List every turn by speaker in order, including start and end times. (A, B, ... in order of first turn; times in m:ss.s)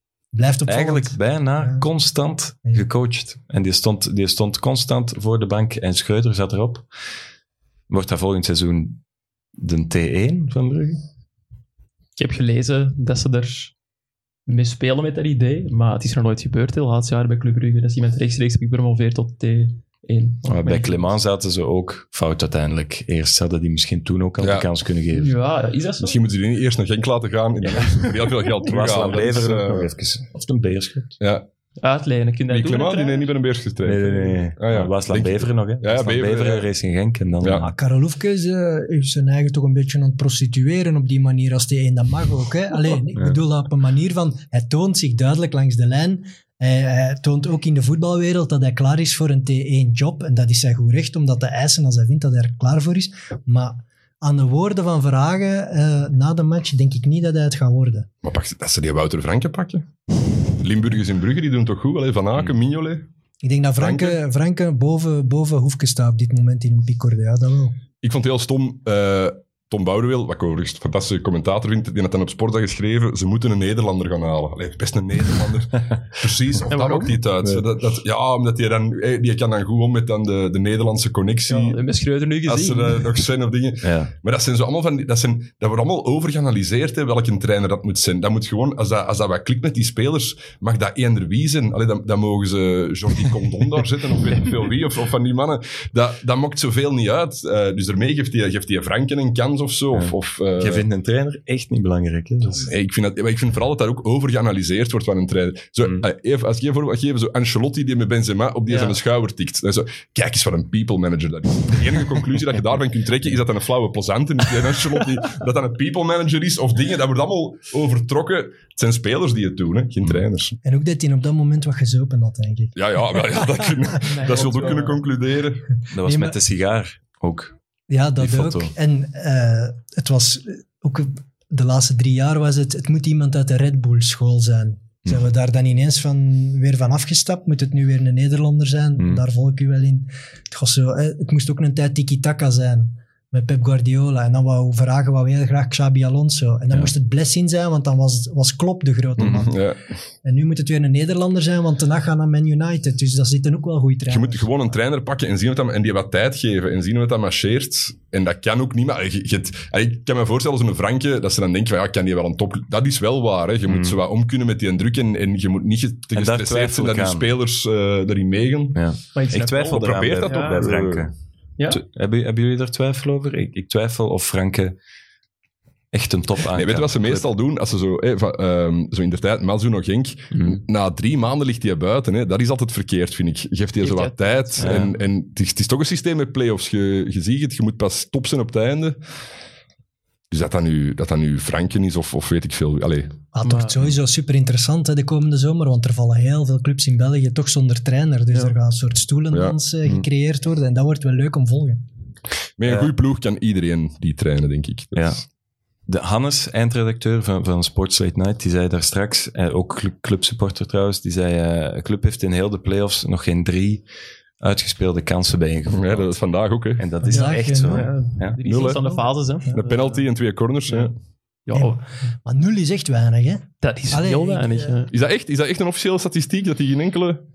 0:00.3-0:01.8 A
0:00.6-0:06.9 B
0:07.9-0:09.0 B
0:09.6-0:11.0 B
0:12.2-0:13.7 C
0:14.4-0:21.1 C
0:20.4-0:25.3 B
0:24.4-0:24.7 D
0:25.1-0:26.2 C
0:26.0-0:29.9 D
0:27.6-0:31.2 B
0:31.2-0:31.4 D
0:31.8-0:33.3 C
0:32.5-0:36.7 D
0:33.8-0:37.7 B
0:37.4-0:37.6 D
0:37.5-0:58.1 A
0:43.1-0:43.4 B
0:58.2-0:59.9 D
1:00.6-1:03.1 D
1:03.4-1:07.8 A
1:03.8-1:04.2 D
1:08.0-1:21.8 D
1:16.7-1:17.1 C
1:21.5-1:23.2 C
1:22.4-1:40.8 D
1:23.8-1:24.1 B
1:39.9-1:42.7 B
1:42.6-2:00.6 D
1:48.7-1:49.0 C
2:00.6-2:04.6 A
2:02.8-2:05.7 D
2:04.0-2:05.0 C
2:05.9-2:07.5 B
2:06.0-2:06.4 A
2:07.9-2:29.7 A
2:08.2-2:08.7 B
2:19.0-2:19.2 B
2:29.2-2:29.8 D
2:29.2-2:29.4 B
2:30.2-2:34.5 A
2:34.1-2:48.8 D
2:43.6-2:44.0 B
2:46.1-2:47.3 B
2:48.7-2:51.1 B
2:49.1-2:50.6 C
2:49.5-2:51.1 D
2:51.6-2:51.8 C
2:51.7-2:54.8 B
2:55.9-2:57.3 B
2:56.5-3:09.0 D
3:00.3-3:00.6 B
3:03.8-3:04.9 C
3:04.6-3:04.9 B
3:10.3-3:13.2 D
3:13.3-3:21.8 A
3:13.4-3:13.8 C
3:22.6-3:25.2 D
3:22.6-3:22.9 B
3:24.9-3:25.2 B
3:25.9-3:33.8 B
3:34.4-3:36.1 B
3:35.7-3:36.8 D
3:36.8-3:38.4 B
3:37.0-3:37.9 A
3:37.1-3:40.0 C
3:38.4-3:38.8 D
3:38.7-3:39.6 A
3:39.5-3:40.9 D
3:41.4-3:41.8 C
3:41.5-3:44.9 A
3:43.6-3:44.9 C
3:44.9-3:47.2 D